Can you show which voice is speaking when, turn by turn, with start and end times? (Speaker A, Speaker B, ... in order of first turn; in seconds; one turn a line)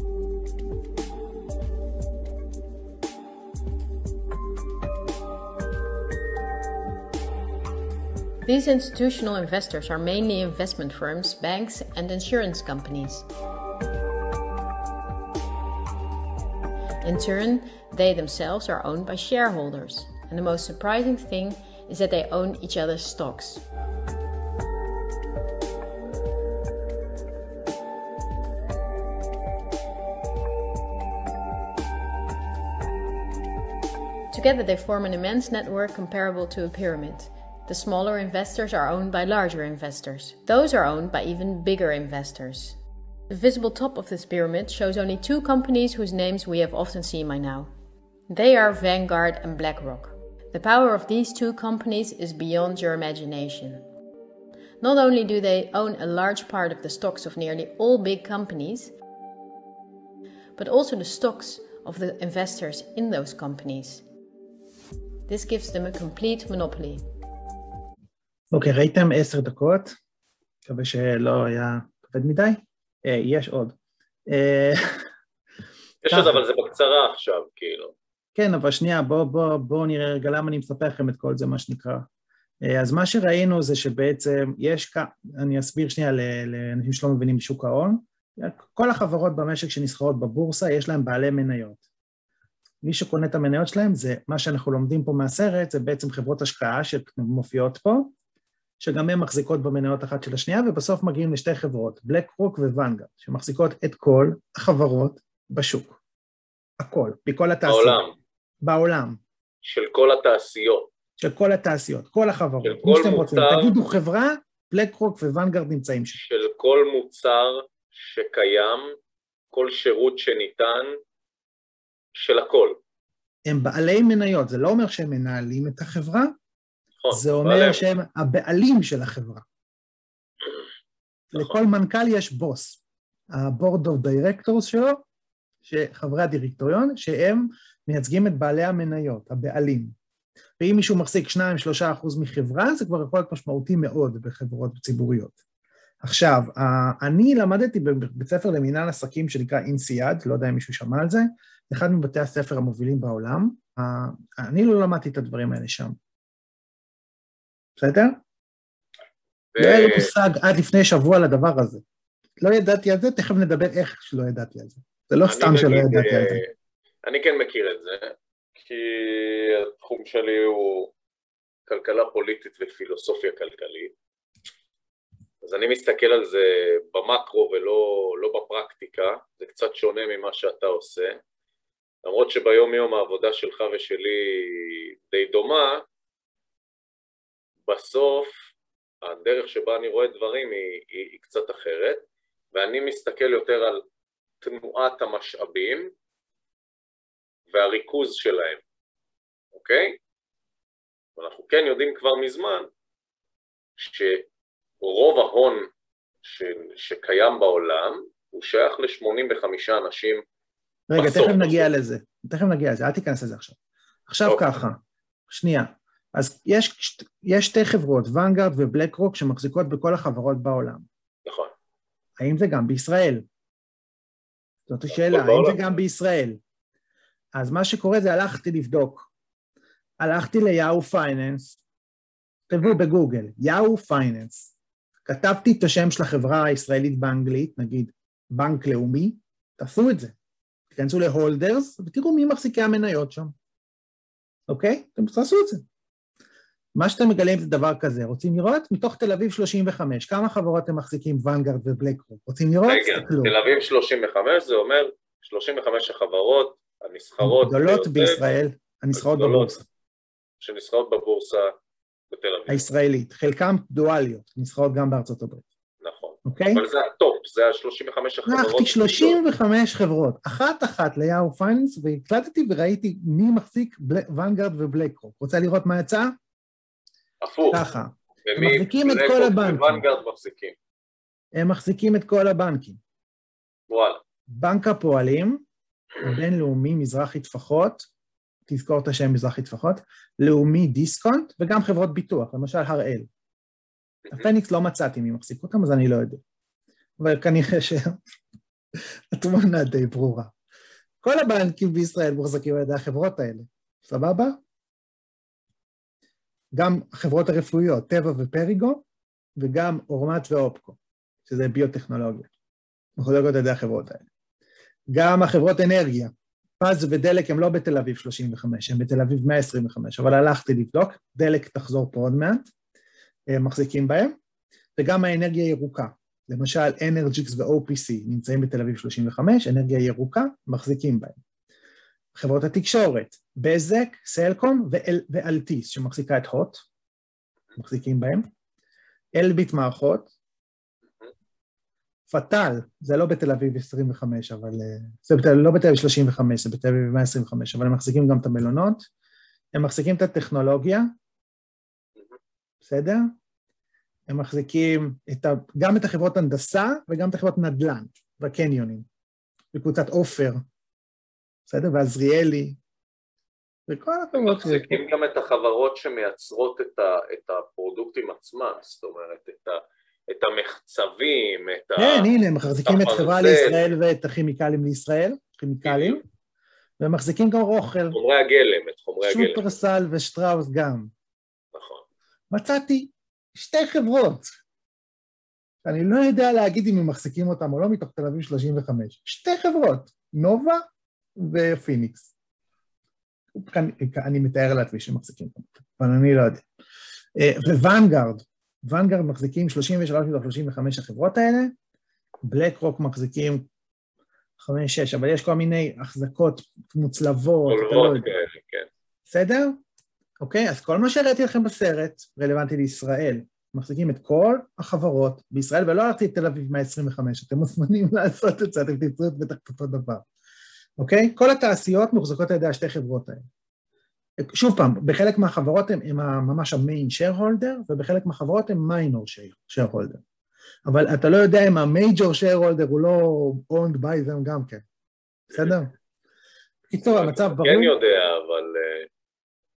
Speaker A: 8.4-13.3
Speaker A: 17.0-23.6
Speaker A: 34.3-42.8
Speaker A: 43.3-47.7
Speaker A: 48.3-53.8
Speaker A: 54.8-58.9
Speaker A: 60.6-64.0
Speaker A: 65.3-67.0
Speaker B: 68.5-70.0
Speaker B: 70.7-73.8
Speaker B: 74.3-75.0
Speaker C: 76.0-77.9
Speaker B: 76.1-76.4
Speaker B: 78.3-82.1
Speaker B: 82.7-91.8
Speaker B: 92.8-98.1
Speaker B: 98.8-106.0
Speaker B: 106.8-108.0
Speaker C: 107.7-108.1
Speaker B: 108.6-109.2
Speaker C: 109.7-110.9
Speaker B: 111.2-116.2
Speaker C: 112.6-113.7
Speaker C: 116.2-119.0
Speaker C: 119.5-120.9
Speaker C: 122.2-122.8
Speaker B: 123.5-126.3
Speaker C: 127.0-127.8
Speaker B: 127.1-129.4
Speaker B: 131.3-132.8
Speaker B: 133.3-135.0
Speaker B: 135.7-139.9
Speaker B: 140.6-145.4
Speaker B: 146.0-156.0
Speaker B: 157.8-158.2
Speaker C: 159.6-160.1
Speaker B: 159.6-161.8
Speaker B: 162.4-166.4
Speaker C: 165.3-166.5
Speaker C: 167.0-170.9
Speaker C: 171.7-173.9
Speaker C: 175.4-181.2
Speaker C: 182.0-185.8
Speaker C: 187.7-188.3
Speaker C: 189.0-193.8
Speaker C: 194.4-195.9
Speaker C: 197.5-198.6
Speaker C: 199.5-200.0
Speaker C: 201.2-202.7
Speaker C: 203.8-204.3
Speaker C: 204.8-205.7
Speaker C: 206.2-210.2
Speaker B: 210.9-213.6
Speaker C: 211.0-211.7
Speaker B: 214.1-220.9
Speaker C: 221.3-221.5
Speaker B: 222.2-223.2
Speaker B: 224.7-226.4
Speaker C: 224.9-225.6
Speaker B: 227.3-229.1
Speaker B: 230.0-231.6
Speaker B: 232.5-234.5
Speaker B: 235.1-240.1
Speaker B: 240.7-243.3
Speaker B: 244.5-245.6
Speaker B: 246.8-253.3
Speaker C: 252.7-258.2
Speaker B: 257.2-259.6
Speaker C: 258.9-259.6
Speaker C: 260.4-261.5
Speaker C: 262.1-262.7
Speaker B: 262.5-265.5
Speaker C: 265.8-269.2
Speaker B: 266.3-266.6
Speaker B: 268.3-276.1
Speaker C: 277.2-277.6
Speaker B: 277.5-279.8
Speaker C: 278.2-280.6
Speaker B: 281.3-282.8
Speaker C: 283.7-284.0
Speaker B: 284.3-285.4
Speaker B: 286.0-287.9
Speaker B: 288.5-293.1
Speaker B: 294.1-296.2
Speaker B: 297.0-298.0
Speaker B: 299.1-300.3
Speaker B: 301.0-304.4
Speaker B: 306.5-308.8
Speaker B: 309.4-312.3
Speaker B: 313.0-314.1
Speaker B: 314.9-322.5
Speaker B: 323.3-324.2
Speaker B: 324.8-331.2
Speaker B: 332.1-336.6
Speaker B: 337.6-338.3
Speaker B: 339.1-340.1
Speaker B: 342.1-348.9
Speaker B: 349.6-350.9
Speaker B: 352.6-353.0
Speaker B: 354.1-358.9
Speaker B: 359.5-360.4
Speaker B: 361.5-362.6
Speaker B: 363.7-364.8
Speaker C: 364.2-372.1
Speaker B: 371.8-376.0
Speaker C: 372.6-373.6
Speaker C: 375.6-376.0
Speaker B: 376.8-378.0
Speaker C: 377.9-379.5
Speaker B: 379.0-380.9
Speaker C: 381.5-381.8
Speaker B: 382.3-384.3
Speaker B: 385.6-390.6
Speaker B: 391.2-392.1
Speaker B: 393.3-396.4
Speaker B: 397.2-401.5
Speaker B: 402.2-403.5
Speaker B: 404.4-408.1
Speaker C: 407.5-408.7
Speaker B: 409.1-409.6
Speaker B: 410.2-420.1
Speaker B: 420.8-423.2
Speaker B: 424.2-430.0
Speaker B: 430.7-434.6
Speaker B: 435.3-435.7
Speaker B: 436.7-437.8
Speaker C: 436.9-438.9